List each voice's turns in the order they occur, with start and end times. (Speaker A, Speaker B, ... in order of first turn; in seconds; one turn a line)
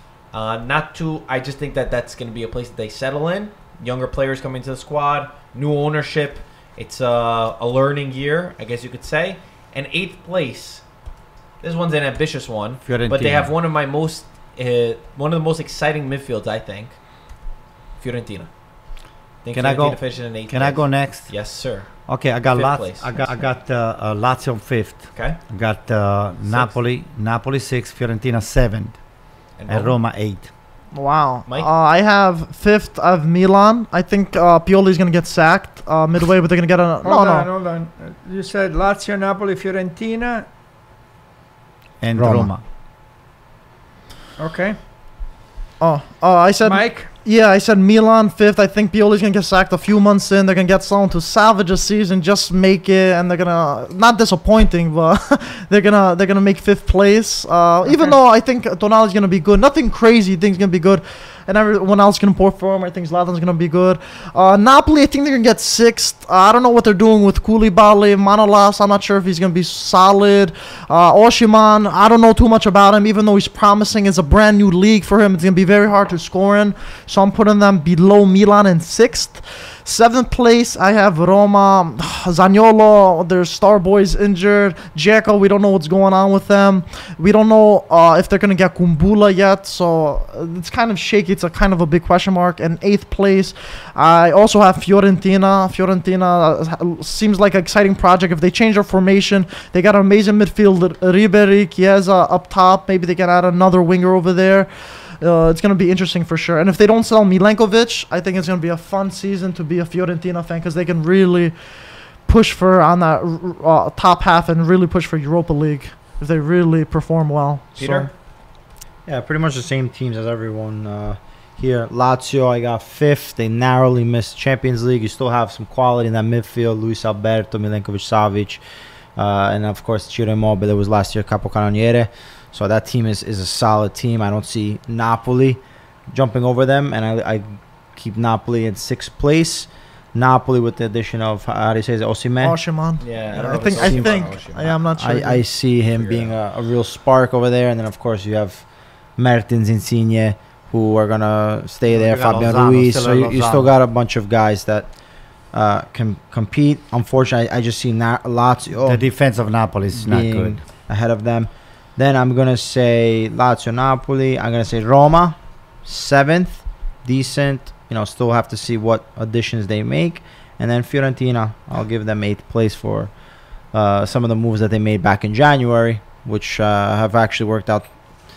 Speaker A: 0.3-10.8
Speaker A: 11.6-16.9
Speaker B: 12.8-13.5
Speaker A: 18.0-18.5
Speaker A: 19.4-21.9
Speaker B: 19.5-21.3
Speaker B: 22.1-29.0
Speaker A: 22.4-23.1
Speaker A: 25.1-25.4
Speaker A: 26.4-26.8
Speaker A: 29.6-30.0
Speaker B: 29.7-30.5
Speaker C: 30.9-37.5
Speaker D: 37.0-40.5
Speaker B: 42.0-42.6
Speaker E: 42.2-42.5
Speaker D: 44.4-44.8
Speaker C: 45.8-104.7
Speaker D: 46.6-47.1
Speaker C: 105.2-111.5
Speaker C: 112.2-118.1
Speaker A: 117.8-118.1
Speaker E: 119.0-128.6
Speaker E: 129.2-142.6
Speaker C: 142.4-145.4
Speaker A: 143.0-144.8
Speaker E: 143.4-144.2
Speaker E: 144.9-154.9
Speaker A: 145.9-146.3
Speaker B: 151.9-153.7
Speaker E: 155.5-159.1
Speaker B: 158.8-160.6
Speaker E: 159.9-173.1
Speaker E: 173.7-177.9